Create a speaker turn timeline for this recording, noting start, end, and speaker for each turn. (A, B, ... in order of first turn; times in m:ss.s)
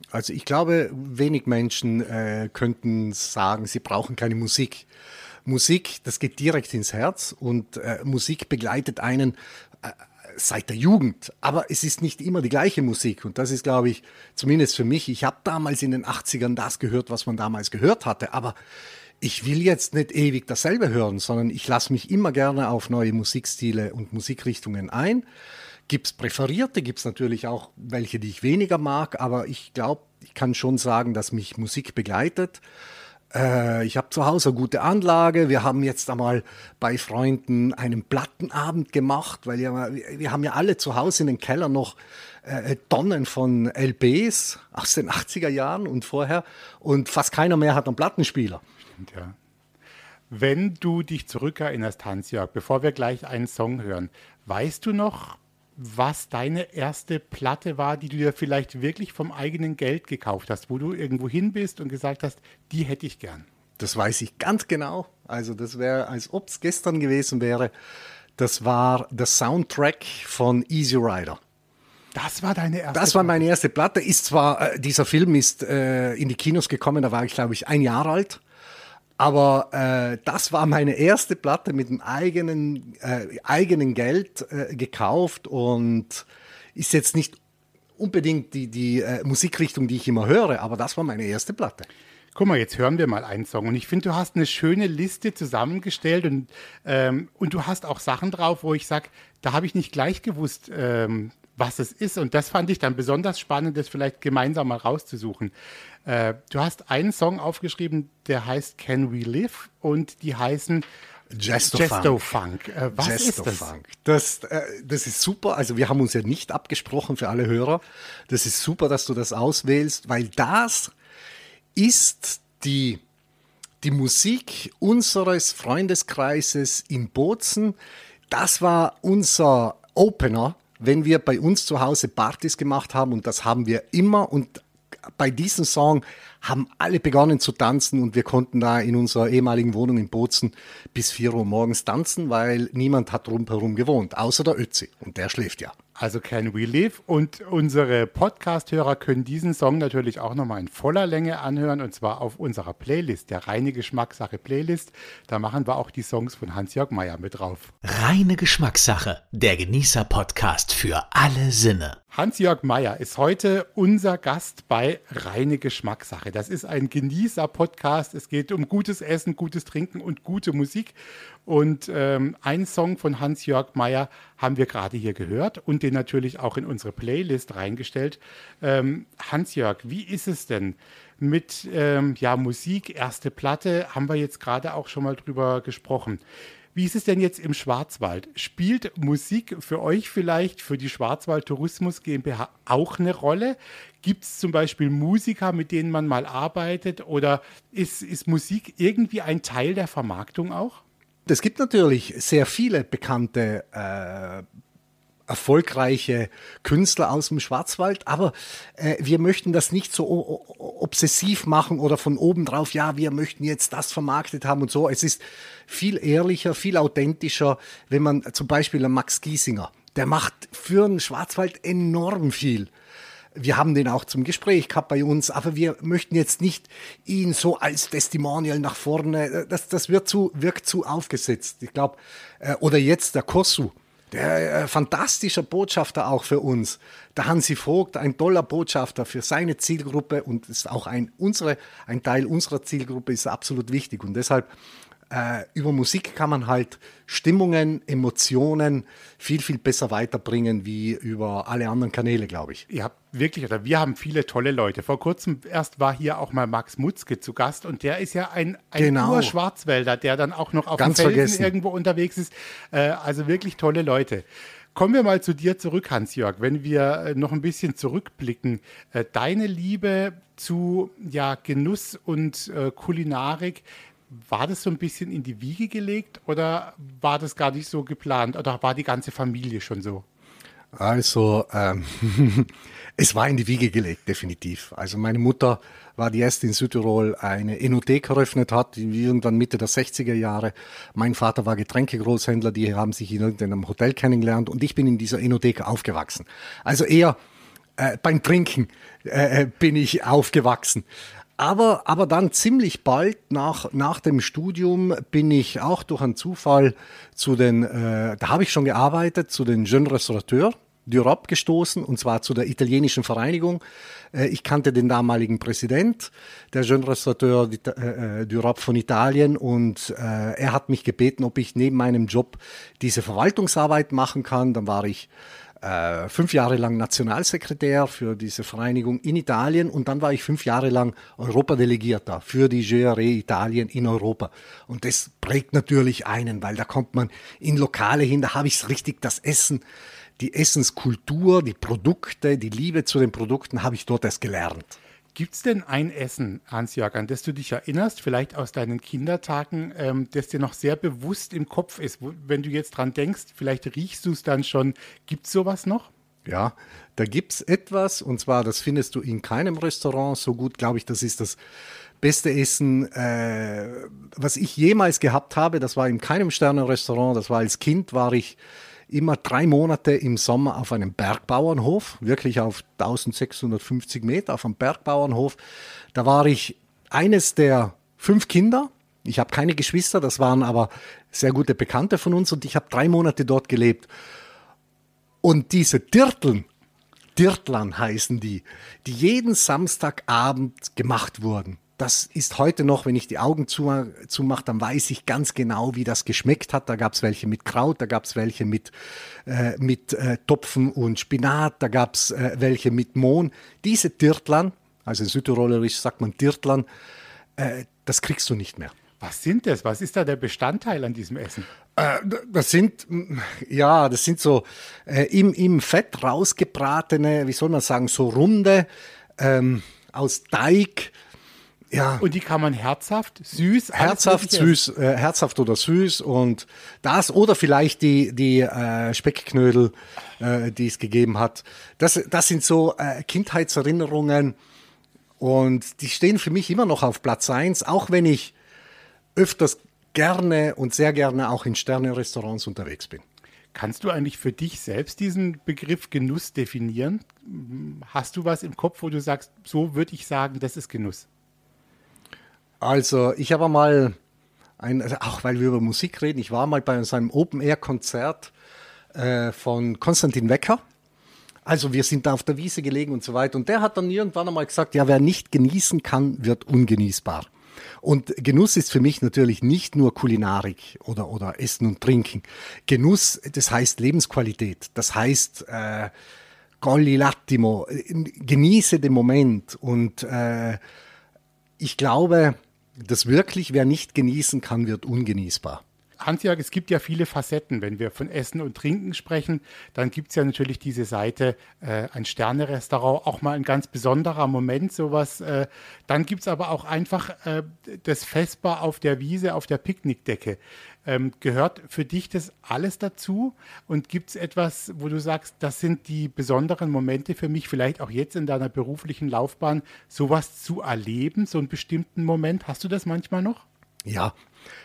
0:00.1-0:04.9 A
0:05.4-0:18.6 A
0:19.2-0:25.2 A
0:25.9-0:32.6 A
0:33.3-0:48.6 A
0:49.0-0:49.4 B
0:50.3-1:03.4 B
1:03.8-1:07.7 A
1:08.4-1:11.4 A
1:12.1-1:13.4 B
1:12.9-1:18.4 A
1:19.2-1:27.4 A
1:28.0-1:31.9 A
1:32.3-1:45.5 B
1:46.0-1:50.8 B
1:51.3-1:52.2 A
1:51.6-1:53.7 B
1:53.0-2:00.9 A
2:01.8-2:03.0 A
2:03.8-2:07.8 A
2:08.3-2:14.6 A
2:15.2-2:25.7 A
2:26.0-2:37.7 B
2:37.8-2:42.0 C
2:42.1-2:50.9 B
2:51.4-3:06.2 B
3:06.7-3:20.8 B
3:21.3-3:24.4 A
3:25.3-3:42.7 A
3:43.3-4:04.5 A
4:05.1-4:12.6 A
4:12.7-4:40.0 B
4:18.8-4:19.3 A
4:20.8-4:21.5 A
4:40.7-4:57.2 A
4:57.8-5:00.8 A
5:01.4-5:13.6 A
5:14.1-5:25.1 A
5:25.6-5:39.6 A
5:40.2-5:44.8 A
5:45.1-5:55.9 B
5:56.2-6:01.4 A
6:02.0-6:08.4 A
6:08.9-6:15.4 A
6:15.9-6:23.9 A
6:25.2-6:26.5 A
6:27.2-6:38.7 A
6:39.2-6:46.7 A
6:47.4-6:48.7 A
6:49.0-6:51.5 B
6:51.8-6:58.7 A
6:59.2-7:00.9 A
7:01.7-7:02.0 A
7:02.0-7:04.6 B
7:03.7-7:14.3 A
7:15.2-7:18.3 A
7:19.2-7:23.0 A
7:23.5-7:31.0 B
7:32.6-7:34.0 A
7:34.6-7:38.3 A
7:38.9-7:40.6 A
7:41.4-7:47.3 A
7:47.8-7:55.9 A
7:56.6-8:00.6 A
8:01.6-8:05.6 A
8:06.0-8:33.4 B
8:33.8-8:34.1 A